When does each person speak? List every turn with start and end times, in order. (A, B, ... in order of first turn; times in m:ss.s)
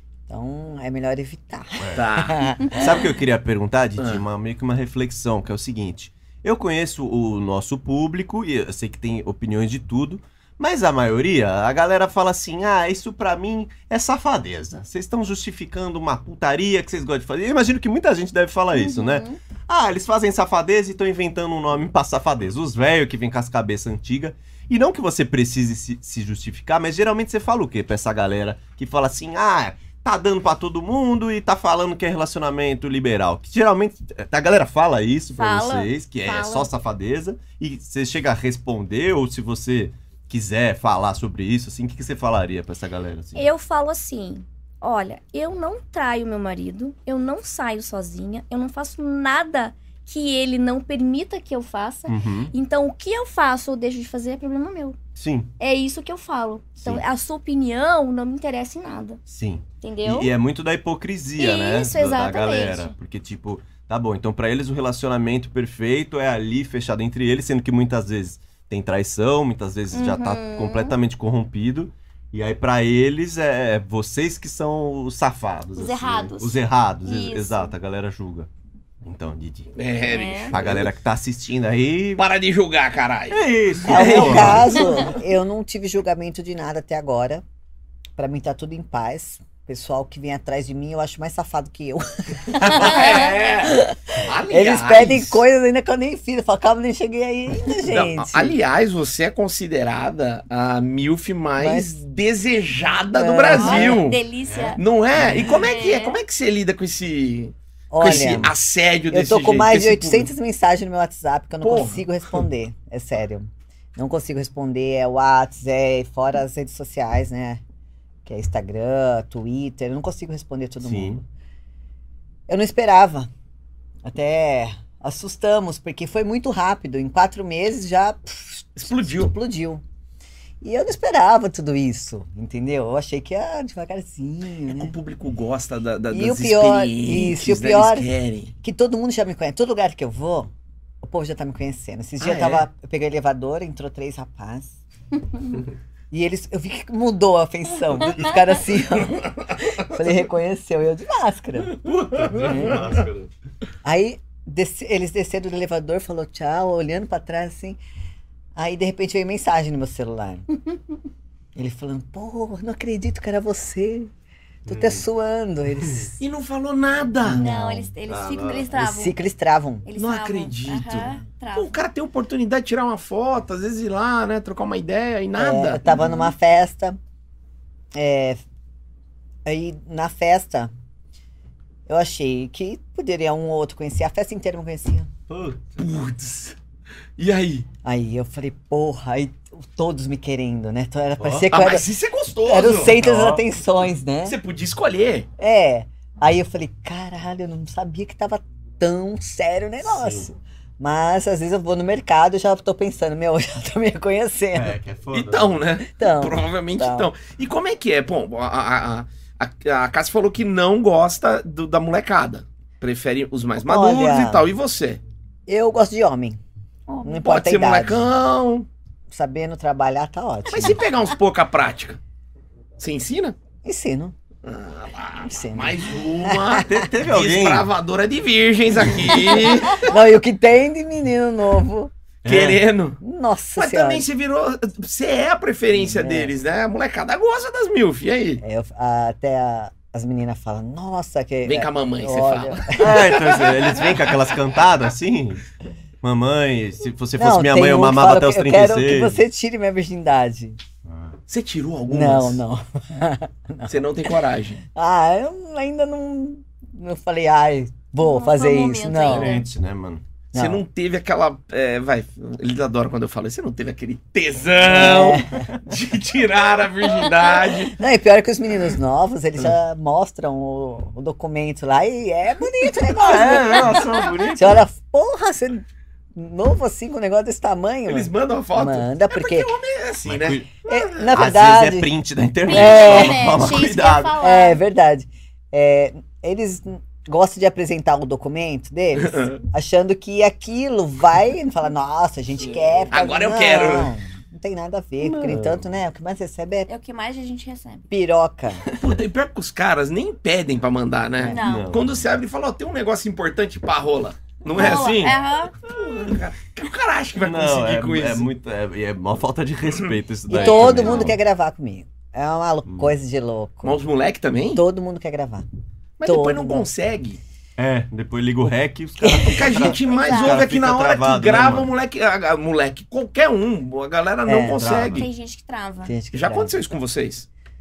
0:00.3-0:03.0 A
0:01.8-0:02.0 B
0:01.9-0:02.4 C
0:02.7-0:43.4 B
0:04.0-0:04.2 C
0:18.7-0:19.4 D
0:35.4-0:36.7 D
0:43.3-0:55.0 D
0:52.1-0:52.5 B
0:55.2-0:55.5 B
0:55.6-0:59.2 D
0:59.3-1:18.5 B
0:59.8-1:00.3 D
1:01.4-1:02.9 D
1:09.9-1:10.9 D
1:15.7-1:17.7 D
1:19.0-1:19.7 B
1:19.8-1:20.9 C
1:20.0-1:20.6 D
1:20.5-1:22.3 B
1:22.2-1:24.8 C
1:23.3-1:25.0 B
1:23.8-1:27.4 A
1:24.7-1:25.1 D
1:28.2-1:33.0 A
1:32.6-1:35.4 C
1:33.7-1:38.6 A
1:37.9-1:44.2 C
1:41.6-1:42.0 A
1:43.1-1:44.0 A
1:43.5-1:44.8 D
1:44.4-1:44.8 B
1:44.8-1:50.3 C
1:45.4-1:46.2 D
1:47.9-1:48.5 A
1:49.1-1:57.6 A
1:51.6-1:52.4 C
1:58.2-2:01.2 A
2:00.8-2:01.2 B
2:02.5-2:03.3 A
2:04.0-2:09.8 A
2:08.8-2:09.3 C
2:10.6-2:14.9 A
2:14.7-2:18.5 C
2:16.1-2:18.1 A
2:18.6-2:20.5 A
2:21.0-2:24.7 A
2:22.2-2:22.6 C
2:26.1-2:31.8 A
2:31.9-2:33.3 B
2:31.9-2:32.8 C
2:32.3-2:32.9 A
2:33.8-2:37.8 A
2:38.6-2:40.4 A
2:41.5-2:44.1 A
2:44.6-2:45.0 B
2:44.7-2:46.2 A
2:46.2-2:47.4 C
2:47.2-2:47.9 A
2:47.4-2:49.2 D
2:48.1-2:48.7 B
2:48.7-2:49.9 A
2:49.8-2:51.8 D
2:50.0-2:55.8 C
2:55.4-2:57.0 A
2:55.9-2:56.3 D
2:57.9-2:58.4 A
2:59.4-3:00.7 A
3:01.9-3:05.1 A
3:05.3-3:05.6 B
3:05.8-3:06.6 C
3:07.2-3:07.7 C
3:07.8-3:11.9 A
3:11.2-3:11.5 B
3:11.5-3:13.0 C
3:12.4-3:14.4 A
3:12.9-3:13.4 B
3:14.2-3:15.3 C
3:15.4-3:24.8 A
3:19.8-3:20.3 B
3:24.5-3:25.6 B
3:25.1-3:35.0 C
3:25.9-3:27.1 A
3:33.6-3:34.5 A
3:35.5-3:36.4 A
3:36.9-3:37.2 D
3:37.0-3:38.0 A
3:37.2-3:38.7 C
3:39.1-3:40.8 A
3:40.5-3:42.0 C
3:42.8-3:43.4 C
3:43.6-3:44.1 A
3:44.4-3:49.8 C
3:45.3-3:46.6 A
3:46.6-3:47.7 B
3:49.4-3:51.9 A
3:49.6-3:49.9 D
3:52.2-3:52.6 B
3:52.2-3:53.0 C
3:53.0-3:54.0 A
3:53.6-3:58.4 C
3:55.7-3:56.3 A
3:58.4-4:03.2 A
4:01.4-4:04.3 C
4:02.8-4:05.4 B
4:06.0-4:09.2 B
4:07.2-4:10.6 A
4:10.8-4:11.2 B
4:11.3-4:12.4 C
4:11.9-4:14.2 A
4:13.7-4:14.6 C
4:14.7-4:19.4 A
4:18.0-4:19.5 D
4:19.0-4:20.0 B
4:20.3-4:20.6 A
4:20.3-4:27.7 C
4:24.6-4:25.5 A
4:27.5-4:39.5 A
4:33.0-4:34.6 B
4:37.9-4:41.2 C
4:40.0-4:40.5 B
4:40.7-4:41.9 A
4:41.1-4:44.2 B
4:42.5-4:43.3 A
4:42.5-4:44.6 D
4:44.2-4:56.7 A
4:49.0-4:49.4 C
4:52.9-4:53.9 C
4:55.0-4:55.6 B
4:56.7-4:57.9 D
4:57.9-4:58.6 A
4:58.7-5:08.3 C
5:01.3-5:01.7 D
5:01.4-5:02.0 B
5:04.5-5:05.5 D
5:07.2-5:11.2 B
5:10.3-5:13.8 A
5:10.3-5:11.1 D
5:12.7-5:12.9 B
5:13.6-5:14.6 C
5:14.5-5:15.4 A
5:16.0-5:17.2 C
5:16.0-5:16.7 A
5:17.6-5:21.7 B
5:19.0-5:19.7 A
5:19.2-5:25.1 C
5:19.9-5:20.5 D
5:24.2-5:24.6 A
5:24.5-5:25.1 B
5:24.9-5:25.9 D
5:25.8-5:26.6 A
5:26.1-5:27.3 C